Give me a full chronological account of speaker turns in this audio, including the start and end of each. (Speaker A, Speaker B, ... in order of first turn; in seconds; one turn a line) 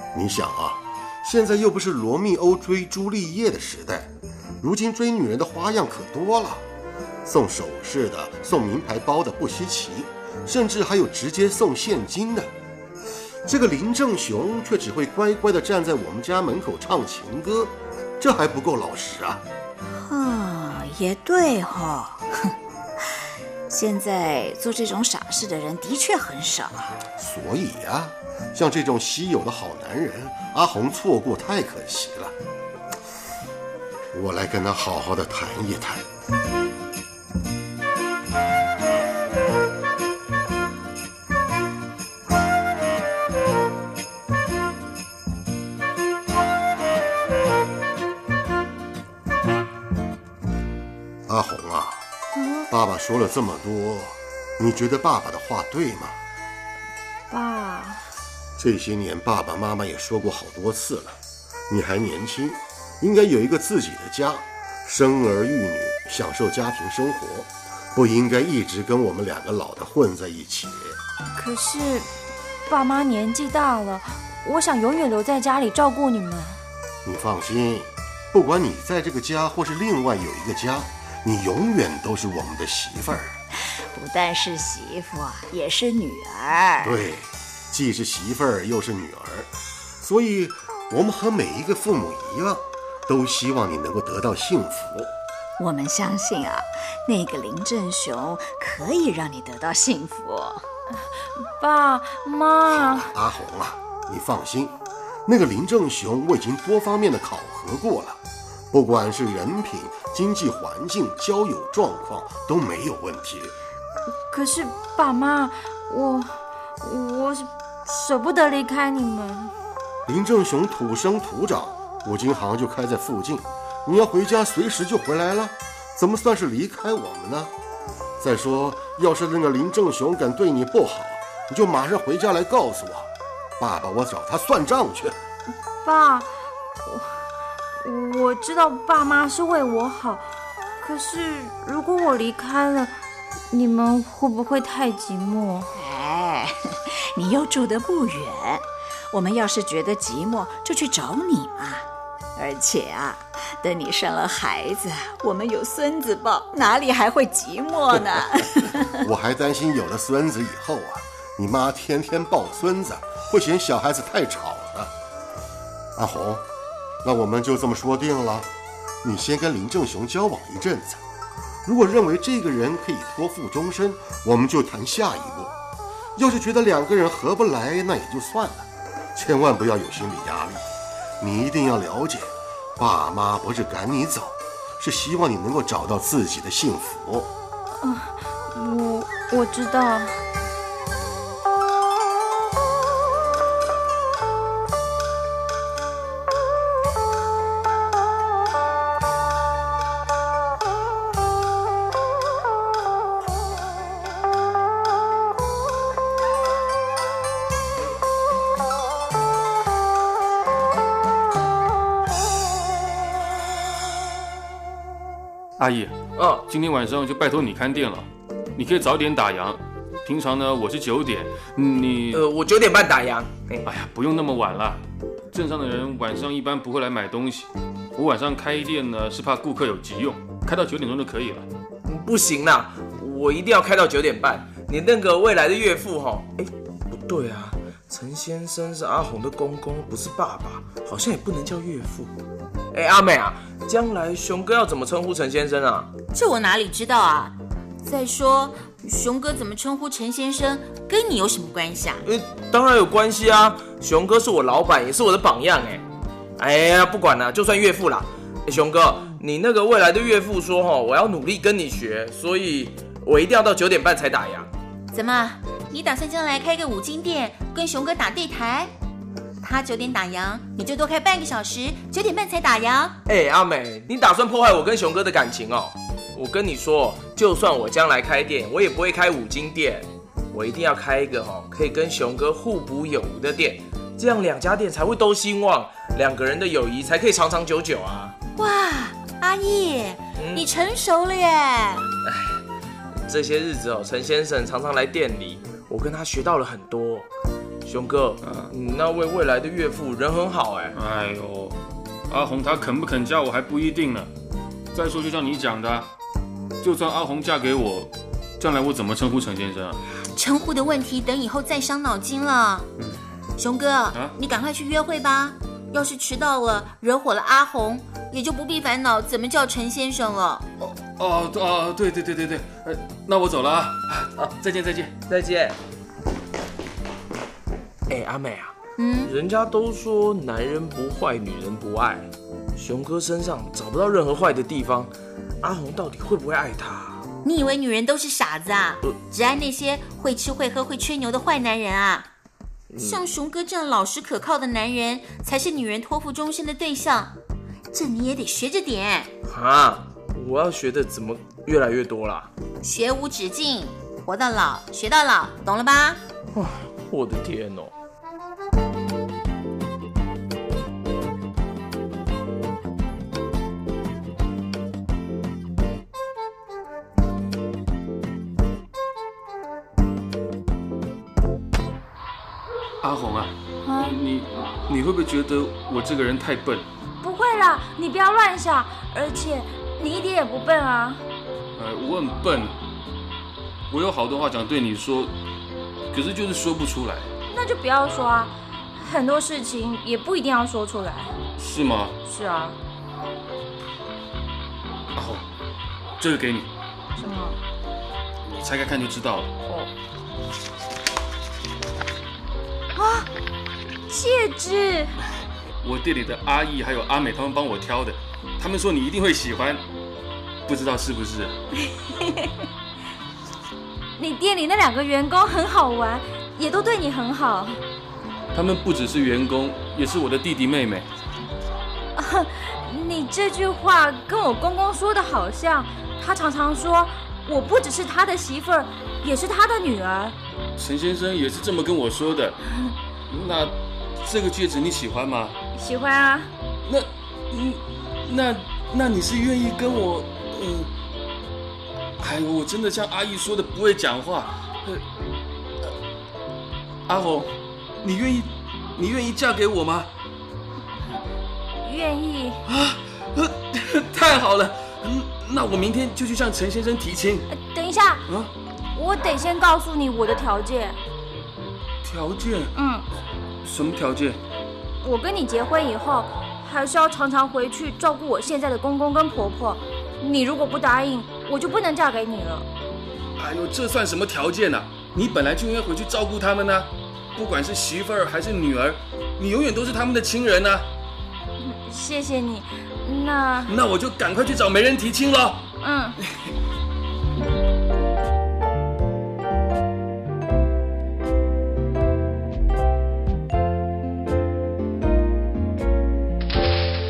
Speaker A: 0.1-4.1
Speaker A: 4.6-6.6
Speaker A: 7.2-12.5
Speaker A: 13.4-19.4
Speaker B: 19.9-22.5
Speaker B: 23.7-27.0
Speaker A: 27.1-32.3
Speaker A: 34.1-36.0
Speaker A: 51.3-52.0
Speaker C: 52.4-52.7
Speaker A: 52.7-56.1
Speaker C: 57.3-58.0
Speaker A: 58.6-61.2
Speaker A: 61.7-71.0
Speaker C: 71.3-72.1
Speaker C: 72.7-76.6
Speaker A: 77.0-83.4
Speaker B: 83.9-87.0
Speaker A: 86.8-89.5
Speaker A: 90.0-95.1
Speaker B: 95.6-100.6
Speaker C: 101.5-103.1
Speaker A: 102.7-108.2
Speaker A: 108.7-113.5
Speaker C: 114.3-119.5
Speaker A: 120.1-127.5
Speaker A: 128.2-135.2
Speaker C: 135.8-136.3
Speaker C: 136.8-137.2
Speaker C: 137.8-140.3
Speaker C: 140.8-142.9
Speaker C: 143.5-145.7
Speaker B: 145.7-159.0
Speaker A: 158.9-164.9
Speaker A: 165.9-166.4
Speaker A: 167.0-168.5
Speaker A: 169.0-171.0
Speaker A: 171.6-175.5
Speaker A: 176.2-180.6
Speaker A: 181.2-187.3
Speaker C: 187.8-190.2
Speaker D: 215.6-215.9
Speaker E: 216.2-216.4
Speaker D: 216.5-222.3
Speaker E: 222.1-223.7
Speaker D: 223.6-231.5
Speaker E: 231.8-242.1
Speaker E: 242.7-245.9
Speaker F: 246.1-252.0
Speaker E: 252.0-255.8
Speaker E: 256.4-264.5
Speaker F: 264.9-268.7
Speaker F: 269.4-273.0
Speaker E: 273.1-288.1
Speaker F: 288.4-291.9
Speaker E: 290.2-290.4
Speaker E: 292.0-292.4
Speaker E: 293.1-297.1
Speaker E: 297.6-300.8
Speaker D: 298.2-298.5
Speaker D: 300.7-304.1
Speaker D: 304.7-305.9
Speaker D: 306.6-309.8
Speaker F: 310.1-312.7
Speaker F: 313.4-320.4
Speaker D: 320.6-324.9
Speaker E: 325.1-325.6
Speaker E: 327.9-328.5
Speaker F: 328.8-329.1
Speaker E: 329.0-334.9
Speaker E: 335.4-337.0
Speaker F: 337.2-342.1
Speaker E: 342.7-343.0
Speaker F: 342.8-347.1
Speaker F: 347.7-349.1
Speaker E: 349.2-352.3
Speaker F: 352.6-356.0
Speaker E: 356.3-357.7
Speaker D: 372.8-376.7
Speaker C: 373.6-374.0
Speaker C: 377.0-381.0
Speaker D: 381.6-382.5
Speaker D: 383.7-385.1
Speaker D: 385.9-387.1
Speaker C: 387.3-391.2
Speaker D: 391.4-391.9
Speaker C: 392.0-392.6
Speaker D: 394.9-395.3
Speaker D: 396.0-396.5
Speaker C: 397.0-397.4
Speaker D: 398.3-399.3
Speaker C: 402.8-403.1
Speaker C: 403.9-404.9
Speaker D: 405.6-409.6
Speaker D: 410.4-411.4
Speaker C: 414.0-417.6
Speaker D: 418.3-420.9
Speaker C: 421.9-430.1
Speaker D: 430.6-432.4
Speaker D: 433.1-435.4
Speaker C: 435.5-436.3
Speaker D: 436.6-440.7
Speaker D: 442.0-444.8
Speaker D: 446.9-449.9
Speaker C: 451.6-452.4
Speaker D: 452.5-457.3
Speaker C: 457.3-458.0
Speaker C: 458.7-460.8
Speaker D: 461.8-462.5
Speaker C: 462.5-462.9
Speaker D: 463.4-464.2
Speaker C: 464.8-472.5
Speaker D: 473.2-480.6
Speaker C: 481.4-483.5
Speaker D: 483.5-485.5
Speaker C: 485.6-486.0